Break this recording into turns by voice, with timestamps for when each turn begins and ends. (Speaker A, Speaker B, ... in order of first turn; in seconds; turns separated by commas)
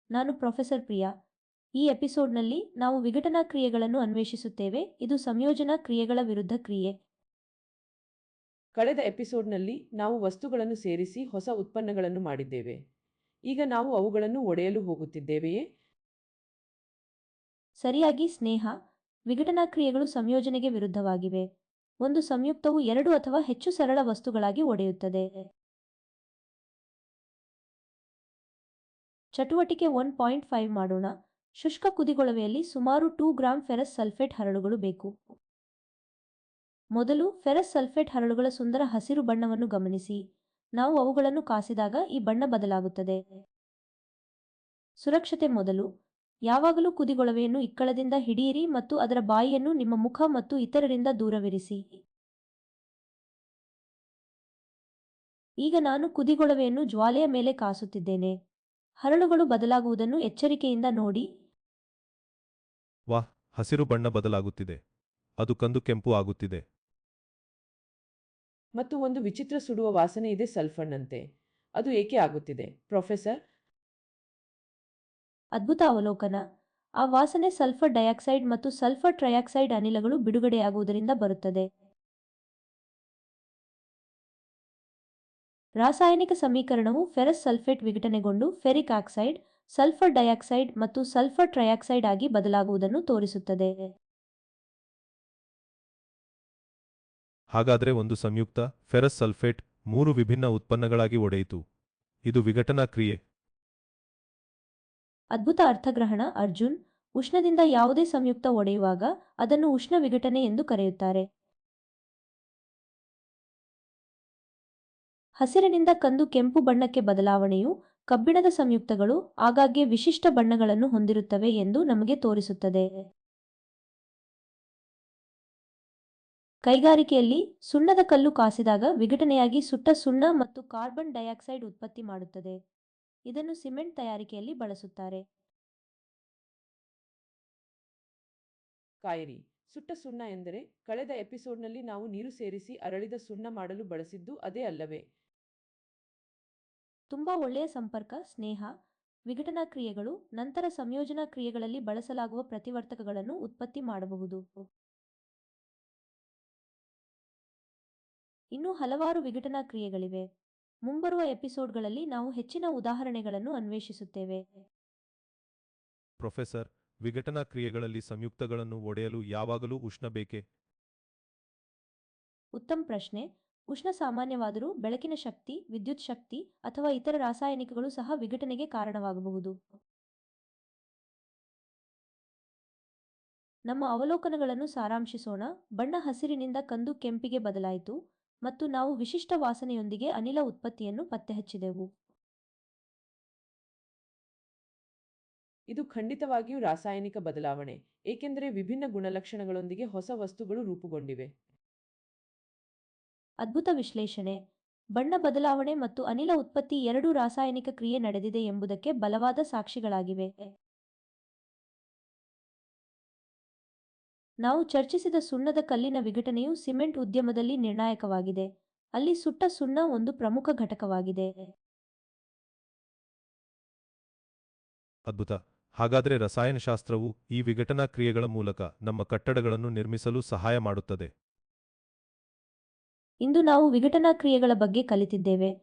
Speaker A: 0.1-1.1, Speaker A: 1.8-6.9, Speaker B: 8.8-12.8, Speaker B: 13.5-15.6, Speaker A: 17.8-18.7, Speaker A: 19.3-21.4, Speaker A: 22.1-25.3, Speaker A: 29.4-31.1, Speaker A: 31.6-35.1, Speaker A: 37.0-40.2, Speaker A: 40.8-43.2, Speaker A: 45.0-45.9, Speaker A: 46.5-51.8, Speaker A: 55.6-58.3, Speaker A: 59.0-61.2, Speaker C: 63.1-64.8, Speaker C: 65.4-66.6, Speaker B: 68.8-71.2, Speaker B: 71.8-73.4, Speaker A: 75.6-76.4, Speaker A: 77.0-81.7, Speaker A: 85.8-93.7, Speaker C: 97.5-101.6, Speaker C: 102.3-103.2, Speaker A: 105.4-111.2, Speaker A: 115.4-122.9, Speaker A: 126.7-132.6, Speaker A: 133.3-135.2, Speaker B: 139.1-145.0, Speaker A: 147.1-148.7, Speaker A: 149.3-154.4, Speaker A: 158.6-160.2, Speaker A: 160.9-164.4, Speaker C: 166.2-170.4, Speaker A: 172.6-179.6, Speaker A: 183.7-187.9, Speaker A: 188.5-191.8, Speaker B: 195.7-201.3, Speaker A: 203.4-204.3, Speaker A: 205.0-210.3, Speaker A: 214.4-218.4, Speaker A: 219.0-221.3, Speaker C: 225.1-231.1, Speaker A: 233.2-235.5